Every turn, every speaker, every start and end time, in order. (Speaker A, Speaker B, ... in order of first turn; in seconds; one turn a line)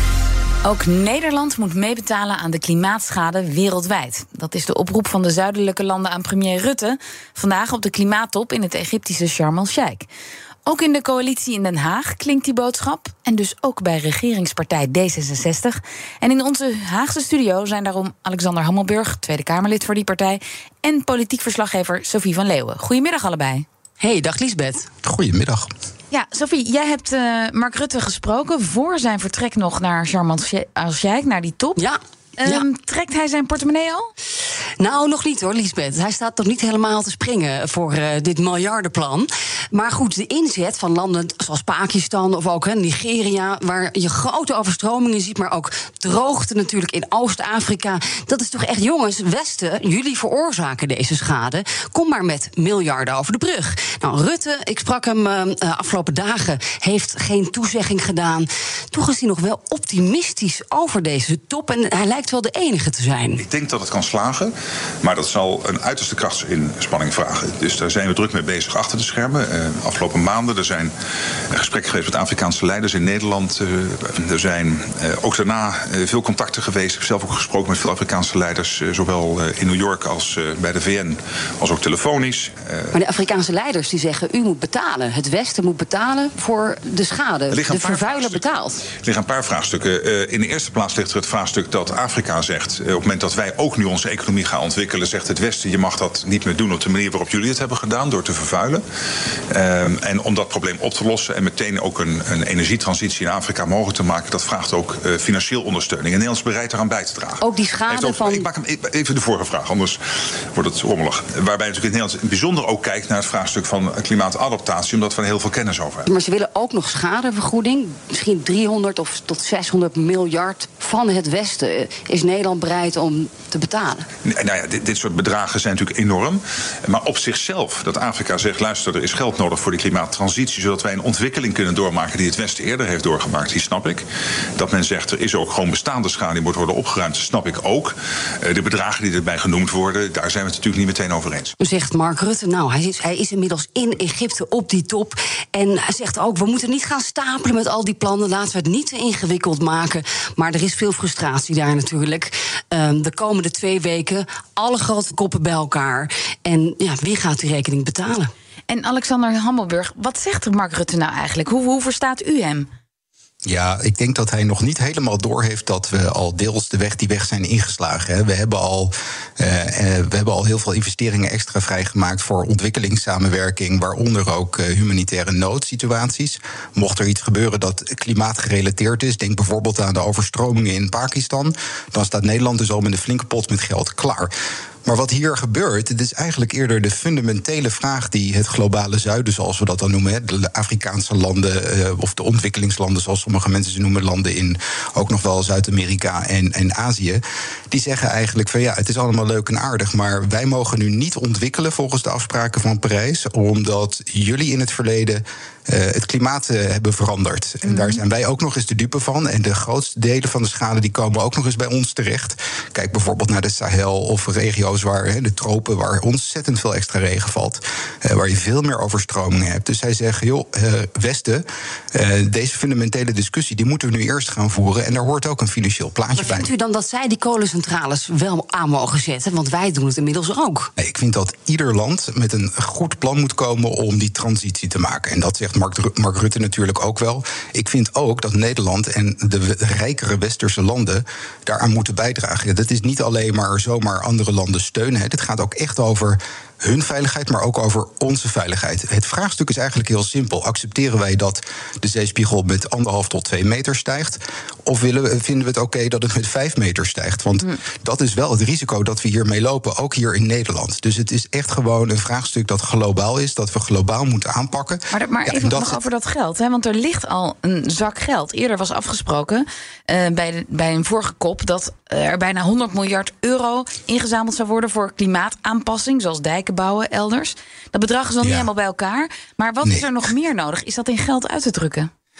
Speaker A: 0.6-10.1
Speaker A: 10.6-23.6
Speaker B: 24.0-24.9
Speaker C: 25.0-25.7
Speaker A: 26.1-31.8
Speaker B: 31.8-32.6
Speaker A: 32.4-34.1
Speaker B: 34.8-63.4
Speaker D: 63.4-64.5
Speaker D: 65.0-70.9
Speaker D: 71.5-82.9
Speaker B: 82.9-88.8
Speaker D: 87.5-88.5
Speaker D: 89.0-98.8
Speaker D: 99.5-110.0
Speaker B: 107.4-108.4
Speaker D: 110.5-116.0
Speaker B: 116.0-124.0
Speaker D: 124.2-134.0
Speaker D: 134.6-141.5
Speaker B: 141.6-158.3
Speaker A: 158.7-162.7
Speaker C: 163.4-184.3
Speaker C: 184.8-226.5
Speaker A: 207.6-208.0
Speaker B: 226.2-230.7
Speaker C: 230.8-265.8
Speaker A: 264.9-281.9
Speaker C: 278.2-278.5
Speaker C: 279.6-279.9